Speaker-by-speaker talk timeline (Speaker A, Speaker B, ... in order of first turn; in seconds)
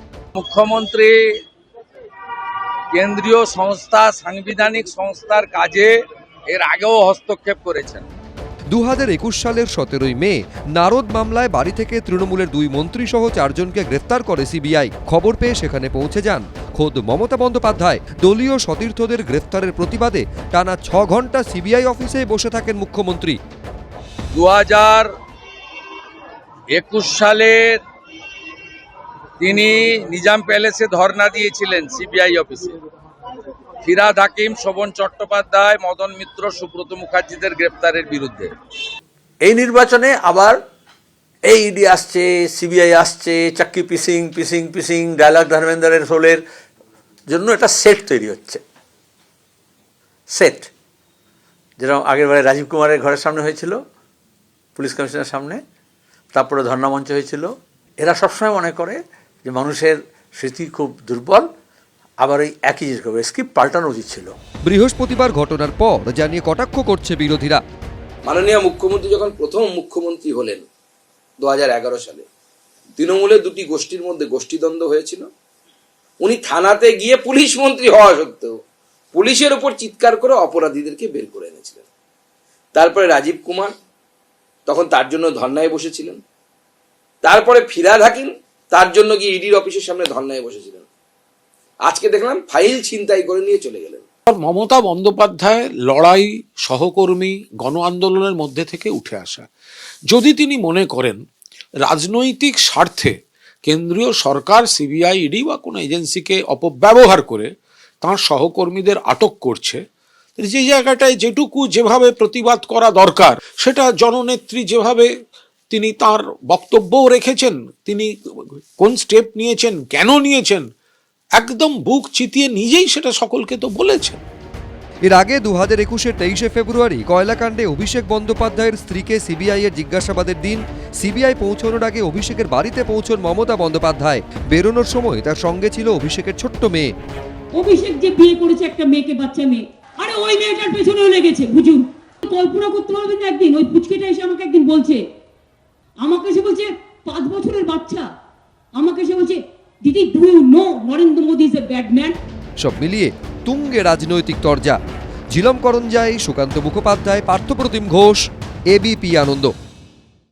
Speaker A: 0.3-1.1, 2.9-6.0, 6.5-8.1, 24.3-25.1, 26.7-27.8, 29.4-32.7, 33.8-38.5
Speaker B: 8.7-23.4, 64.7-67.6, 125.1-136.9, 152.6-154.8, 155.3-159.5
Speaker C: 39.4-40.6, 41.5-46.4, 47.3-48.6, 50.3-50.7, 51.8-53.8, 54.8-55.6, 56.3-61.5, 62.2-64.3
Speaker D: 68.2-70.7, 71.4-72.3, 73.0-75.3, 76.2-78.6, 79.1-81.8, 82.7-83.7, 84.7-86.2, 87.2-90.9, 91.8-94.0
Speaker E: 94.3-99.5, 100.1-101.2, 101.8-107.5, 108.0-109.8, 110.4-115.1, 115.7-120.7, 121.4-124.2
Speaker F: 137.6-145.0, 146.0-148.1, 148.7-152.2